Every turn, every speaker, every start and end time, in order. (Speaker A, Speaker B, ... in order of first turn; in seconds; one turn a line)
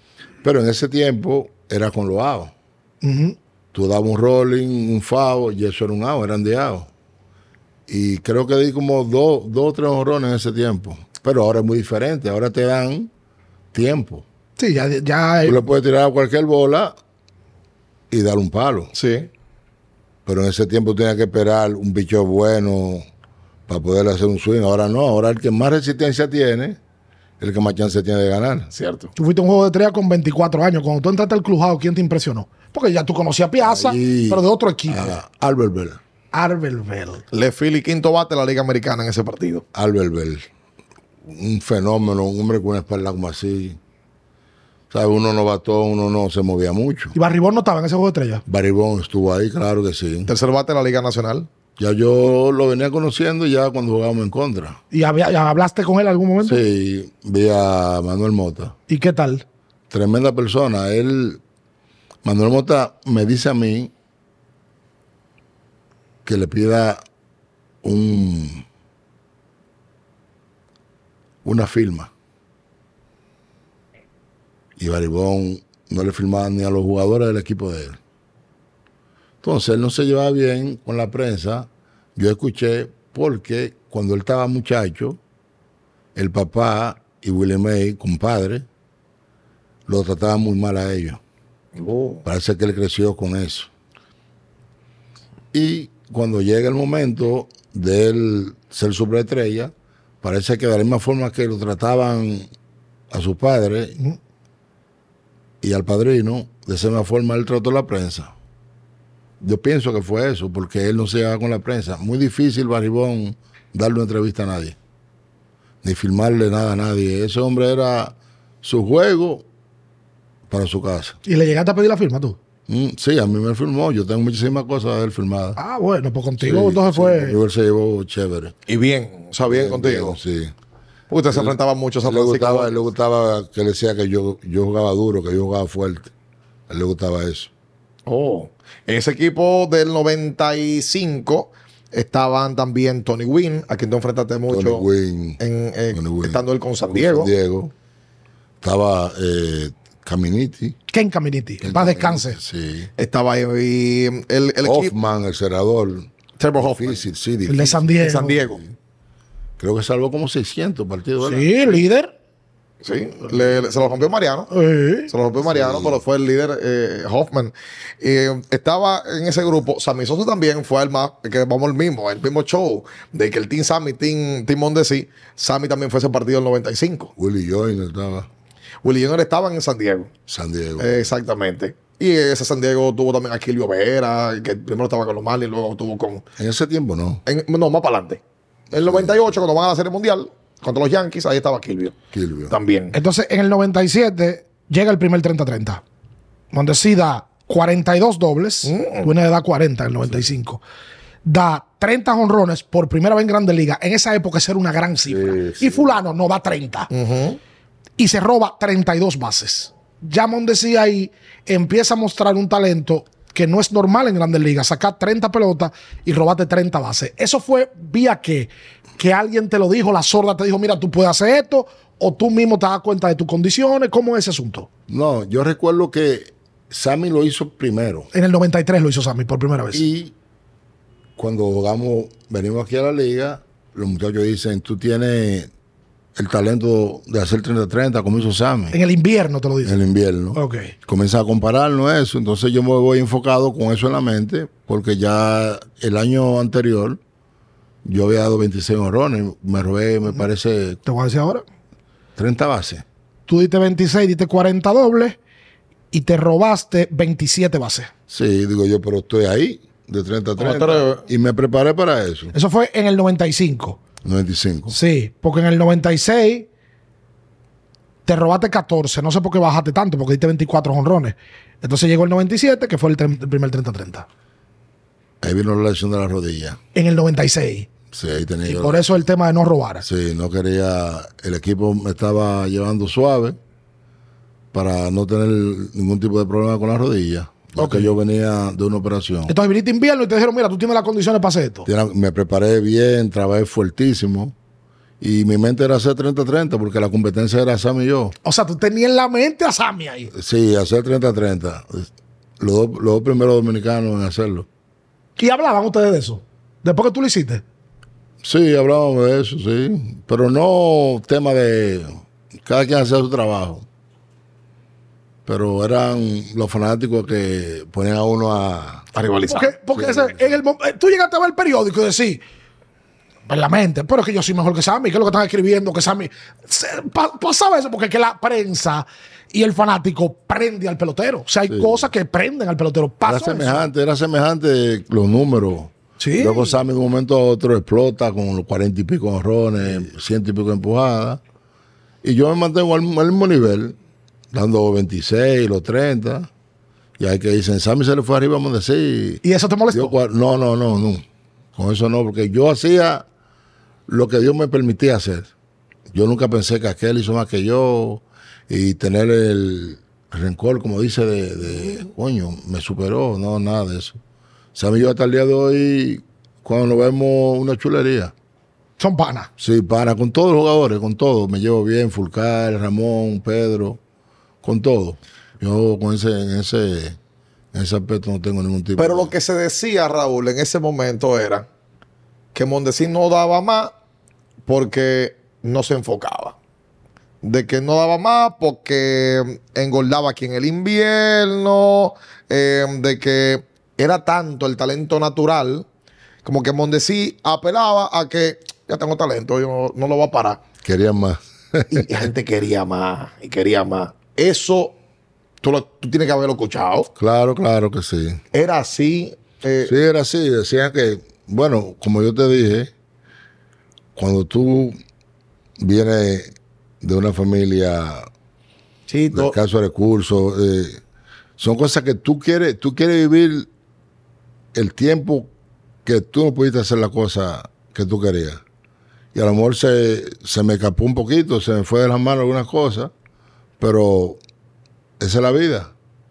Speaker A: 0.4-2.5
Speaker B: 3.0-3.4
Speaker A: 3.7-6.9
Speaker A: 7.9-13.1
Speaker A: 13.7-14.2
Speaker B: 14.6-15.6
Speaker A: 15.4-16.9
Speaker A: 18.1-18.9
Speaker C: 18.9-19.3
Speaker A: 20.3-23.0
Speaker A: 23.7-26.8
Speaker A: 27.4-28.7
Speaker C: 28.7-29.1
Speaker B: 29.1-35.1
Speaker A: 33.6-36.0
Speaker B: 36.3-37.2
Speaker C: 37.3-39.6
Speaker A: 39.7-40.5
Speaker A: 41.3-43.8
Speaker A: 44.9-47.1
Speaker B: 47.1-48.4
Speaker A: 48.5-50.3
Speaker C: 50.3-51.5
Speaker A: 51.8-54.8
Speaker B: 54.9-56.6
Speaker A: 56.4-58.7
Speaker B: 58.9-59.4
Speaker A: 59.9-61.4
Speaker A: 62.2-63.9
Speaker A: 66.2-67.0
Speaker A: 67.8-68.6
Speaker A: 71.4-72.1
Speaker A: 74.8-78.0
Speaker A: 79.4-85.2
Speaker A: 86.2-88.7
Speaker A: 89.9-91.2
Speaker C: 91.8-92.2
Speaker A: 92.2-93.7
Speaker A: 95.5-102.5
Speaker A: 103.1-104.0
Speaker A: 105.6-108.3
Speaker A: 109.4-114.8
Speaker A: 115.8-119.5
Speaker A: 120.5-121.2
Speaker B: 121.3-122.4
Speaker A: 122.7-125.6
Speaker B: 125.6-127.4
Speaker A: 126.4-128.6
Speaker C: 128.7-130.2
Speaker A: 129.5-130.5
Speaker C: 131.1-132.8
Speaker A: 131.3-136.1
Speaker A: 136.7-137.5
Speaker C: 138.1-144.8
Speaker A: 144.5-145.4
Speaker C: 145.4-147.3
Speaker A: 145.9-147.7
Speaker A: 148.6-150.8
Speaker B: 150.9-152.4
Speaker A: 151.6-152.9
Speaker C: 153.0-154.9
Speaker A: 154.6-158.0
Speaker C: 156.4-157.0
Speaker B: 157.5-158.4
Speaker C: 158.0-158.6
Speaker A: 159.6-161.8
Speaker B: 161.2-162.1
Speaker C: 162.8-164.5
Speaker B: 164.5-165.1
Speaker C: 165.1-177.1
Speaker A: 165.4-166.0
Speaker A: 177.2-178.3
Speaker C: 178.8-180.1
Speaker A: 180.3-181.1
Speaker C: 180.8-186.2
Speaker A: 186.4-187.2
Speaker C: 187.3-192.0
Speaker A: 188.7-189.4
Speaker A: 192.1-192.6
Speaker C: 192.5-192.9
Speaker B: 192.9-195.8
Speaker B: 196.5-200.6
Speaker C: 198.6-199.1
Speaker B: 201.2-206.9
Speaker A: 205.1-205.9
Speaker C: 206.9-207.4
Speaker B: 208.0-224.7
Speaker A: 224.9-228.1
Speaker B: 228.1-229.8
Speaker A: 229.7-230.1
Speaker A: 231.2-235.5
Speaker A: 236.2-238.8
Speaker B: 238.7-239.8
Speaker A: 239.6-247.0
Speaker B: 240.3-240.7
Speaker A: 247.8-250.8
Speaker B: 250.8-251.4
Speaker A: 252.2-252.8
Speaker B: 253.3-255.2
Speaker B: 255.9-257.9
Speaker A: 258.1-262.3
Speaker C: 260.4-261.1
Speaker B: 262.3-263.8
Speaker A: 264.0-264.8
Speaker B: 264.7-266.5
Speaker B: 268.1-274.1
Speaker A: 275.2-276.6
Speaker B: 276.7-277.7
Speaker A: 277.9-279.0
Speaker B: 278.5-279.9
Speaker A: 279.8-283.4
Speaker A: 284.5-289.3
Speaker B: 287.6-287.9
Speaker B: 289.3-291.7
Speaker A: 291.7-294.4
Speaker A: 295.0-298.2
Speaker B: 298.2-300.1
Speaker A: 300.1-304.5
Speaker B: 305.2-307.4
Speaker A: 308.2-313.7
Speaker A: 315.3-318.9
Speaker C: 318.9-319.6
Speaker B: 319.3-322.2
Speaker A: 319.7-320.4
Speaker B: 323.3-333.7
Speaker A: 331.5-331.9
Speaker A: 333.1-341.2
Speaker B: 336.0-336.6
Speaker A: 342.0-343.8
Speaker A: 344.3-346.3
Speaker A: 347.0-351.0
Speaker B: 349.2-349.9
Speaker A: 351.6-353.1
Speaker A: 353.9-355.3
Speaker A: 355.9-364.0
Speaker A: 364.6-368.1
Speaker B: 368.8-369.3
Speaker A: 369.4-373.8
Speaker A: 374.4-377.0
Speaker A: 377.5-379.1
Speaker C: 378.8-381.5
Speaker C: 382.3-383.7
Speaker C: 384.5-386.4
Speaker C: 387.2-395.7
Speaker C: 396.2-400.4
Speaker A: 400.6-402.0
Speaker C: 401.7-404.8
Speaker C: 405.4-406.9
Speaker A: 407.0-408.2
Speaker C: 408.3-409.7
Speaker A: 409.6-412.7
Speaker A: 414.0-414.8
Speaker A: 415.6-418.1
Speaker C: 418.9-419.4
Speaker A: 419.1-420.8
Speaker A: 421.4-423.5
Speaker A: 424.5-425.3
Speaker A: 425.9-428.4
Speaker A: 429.1-432.9
Speaker A: 433.6-434.2
Speaker A: 435.0-435.7